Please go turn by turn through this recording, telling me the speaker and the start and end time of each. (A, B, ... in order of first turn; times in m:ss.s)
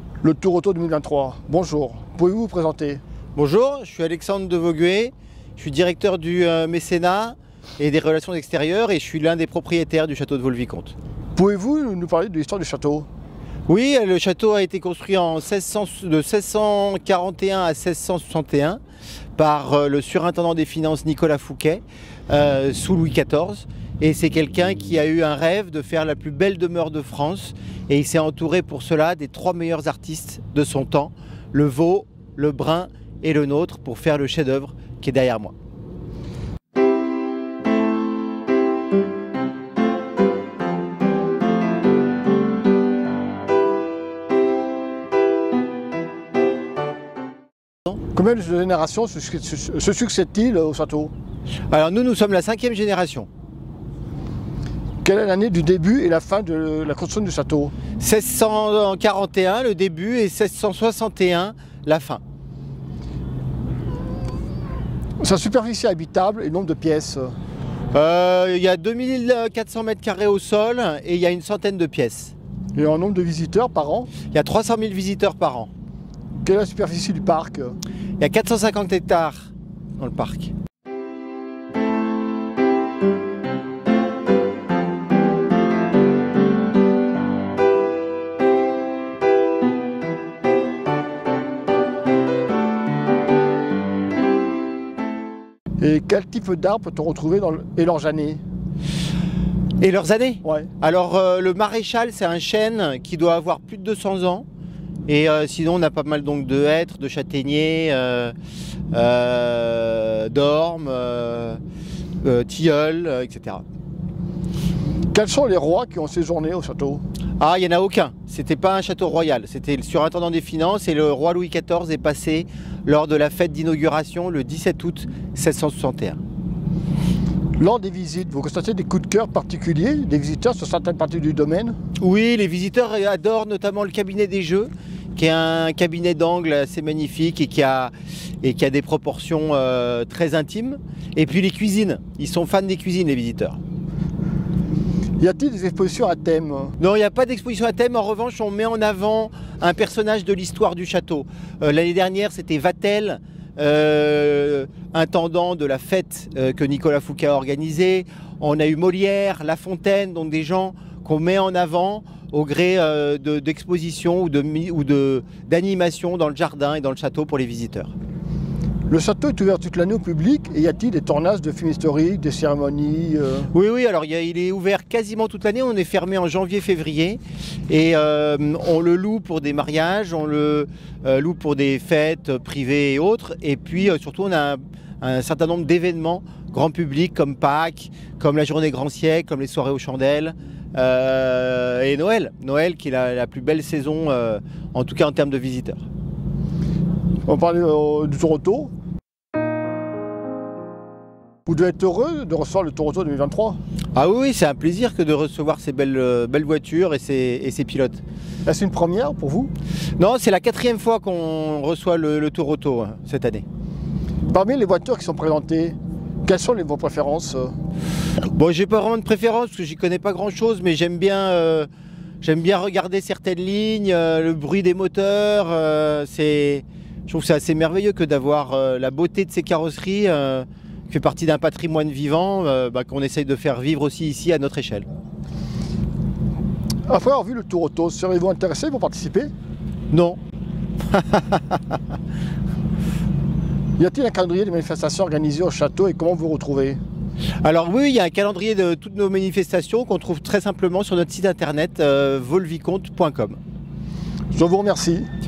0:00.2-0:03.0 A
0:03.4-0:10.9 B
0:11.4-0:13.1 A
0:13.7-0:18.8 B
0:19.4-0:35.5 B
0:48.1-0:51.1 A
0:51.7-0:53.3 B
0:55.0-0:57.7 A
0:58.0-1:02.2 B
1:05.2-1:07.3 A
1:07.9-1:12.3 B
1:12.7-1:14.1 A
1:14.3-1:15.7 B
1:16.4-1:17.8 A
1:18.2-1:20.5 B
1:35.8-1:38.4 A
1:39.8-1:44.4 B
1:40.4-1:40.7 A
1:45.1-1:48.3 B
1:48.9-1:51.6 B
1:52.2-1:53.6 B
1:55.1-1:57.0 A
1:57.4-2:06.2 B
2:07.6-2:11.8 A
2:12.0-2:23.6 B
2:25.2-2:26.8 A
2:26.8-2:47.9 B
2:48.9-2:53.5 A
2:53.5-3:15.8 B
3:17.3-3:18.7 A
3:21.5-3:23.6 A
3:24.0-3:28.0 B
3:28.5-3:29.5 A
3:30.0-3:33.4 B
3:34.3-3:37.5 A
3:38.4-3:41.7 B
3:42.2-3:54.9 B
3:56.9-3:59.3 A
3:59.9-4:00.2 B
4:00.9-4:01.8 B
4:03.8-4:06.8 A
4:07.4-4:13.4 B
4:14.3-4:15.1 A